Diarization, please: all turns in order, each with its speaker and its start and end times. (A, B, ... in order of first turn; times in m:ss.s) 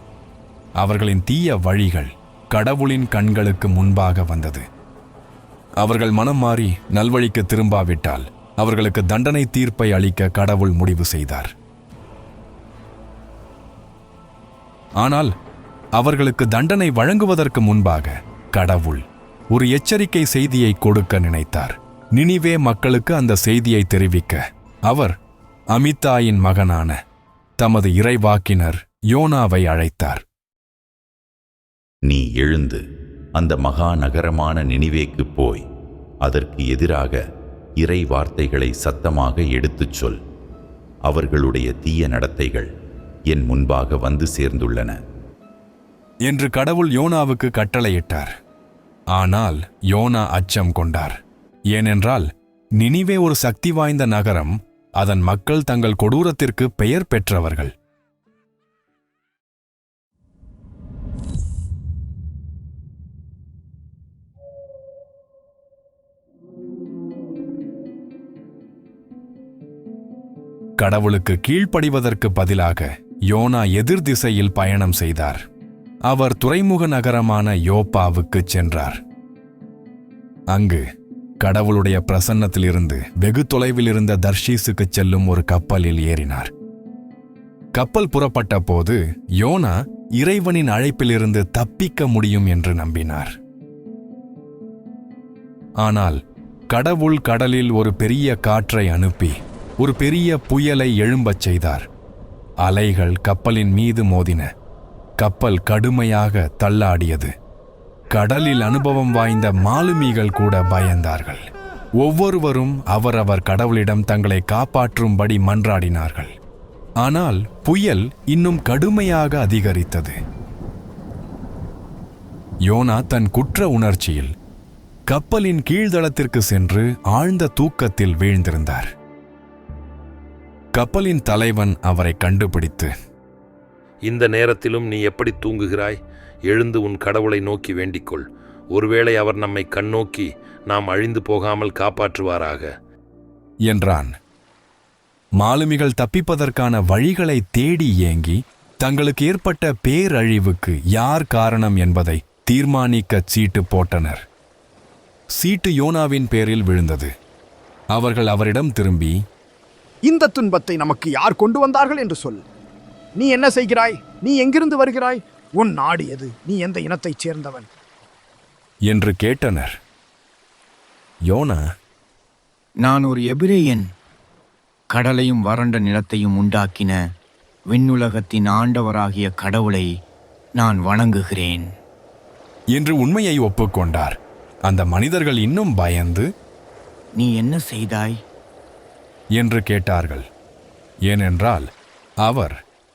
0:00.8-0:04.6 A
0:05.8-0:11.5 A
0:15.0-0:15.3 A
0:16.0-0:25.1 A
0:25.7-0:27.0 A
0:27.6-0:30.2 A
0:32.1-0:32.8 B
0:33.4-0:35.6 B
0:36.2-0:37.2 B
0:37.8-0:40.2 B
0:41.0-0:42.7 B
0:43.3-0:44.9 B
0:46.2-0:48.3 A
0:49.1-0:51.2 A
0:51.7-0:52.3 A
0:52.8-0:57.7 A
1:10.8-1:15.4 A
1:16.1-1:19.0 A
1:20.5-1:20.8 A
1:21.4-1:26.5 A
1:27.7-1:33.3 A
1:35.8-1:36.2 A
1:36.7-1:41.8 A
1:42.6-1:44.5 A
1:45.2-1:47.3 A
1:48.1-1:51.4 A
1:52.0-1:56.3 A
1:57.0-2:00.2 A
2:02.7-2:04.3 A
2:05.1-2:08.9 A
2:10.7-2:12.9 A
2:14.0-2:22.7 C
2:23.7-2:24.1 A
2:25.4-2:34.2 A
2:35.4-2:37.1 A
2:37.9-2:39.2 A
2:40.1-2:42.4 D
2:43.1-2:47.7 D
2:48.9-2:49.7 A
2:51.3-2:51.6 A
2:52.8-2:53.8 E
2:54.9-2:57.0 E
2:57.7-2:59.9 E
3:00.6-3:01.7 E
3:02.7-3:04.2 A
3:04.7-3:06.3 A
3:07.2-3:08.2 E
3:09.4-3:10.2 A
3:11.1-3:11.7 A
3:12.2-3:12.5 A